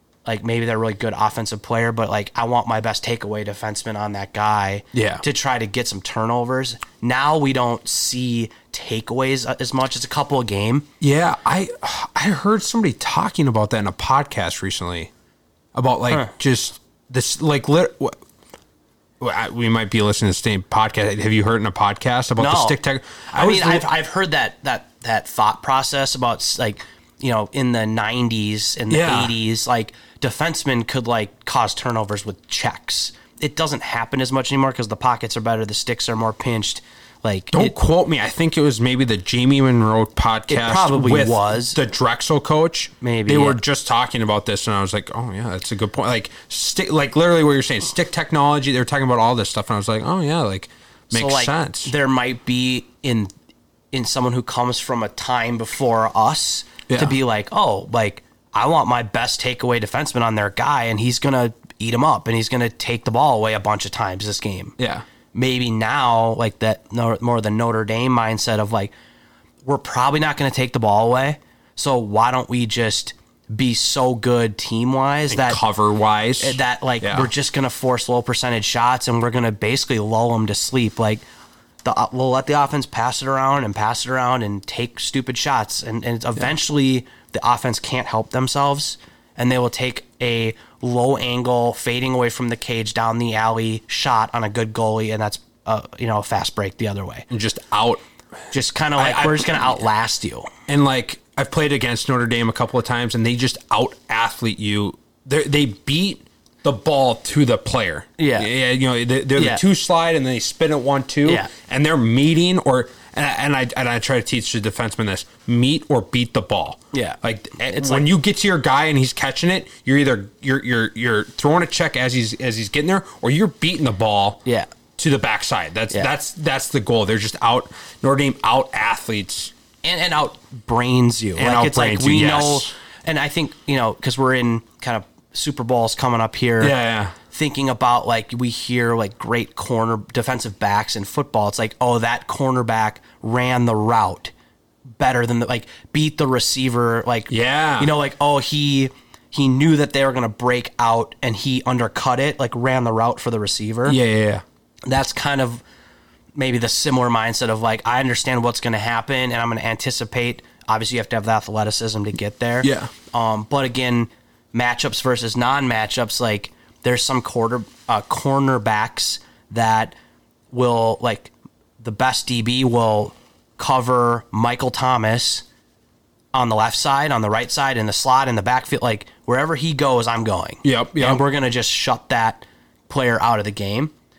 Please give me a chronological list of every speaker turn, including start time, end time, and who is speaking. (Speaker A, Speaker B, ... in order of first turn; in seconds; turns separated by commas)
Speaker A: 0.3-10.9, Speaker B: 4.9-5.2, Speaker B: 11.0-15.1, Speaker B: 15.8-18.2, Speaker B: 19.2-23.9, Speaker A: 22.4-22.8, Speaker A: 23.3-37.7, Speaker B: 28.9-29.3, Speaker B: 37.5-51.9, Speaker A: 40.5-41.8, Speaker A: 43.0-43.6, Speaker A: 51.1-53.3, Speaker A: 53.9-64.8, Speaker B: 56.9-57.2, Speaker B: 64.8-65.0, Speaker A: 65.3-68.9, Speaker A: 69.7-75.6, Speaker B: 75.3-77.3, Speaker A: 76.4-81.2, Speaker A: 81.8-97.3, Speaker B: 97.3-98.0, Speaker A: 98.5-100.5, Speaker B: 99.0-99.8, Speaker B: 100.7-124.4, Speaker A: 108.2-108.5, Speaker A: 109.4-109.6, Speaker A: 111.2-111.5, Speaker A: 116.9-118.1, Speaker B: 125.0-129.5, Speaker A: 129.8-136.8, Speaker B: 131.4-132.7, Speaker B: 136.6-137.2, Speaker A: 137.3-144.3, Speaker A: 145.0-154.0, Speaker B: 147.3-147.9, Speaker B: 153.9-154.4, Speaker A: 154.9-155.6, Speaker A: 156.3-170.0, Speaker B: 162.6-162.9, Speaker A: 170.5-175.4, Speaker A: 176.3-183.9, Speaker B: 180.6-181.2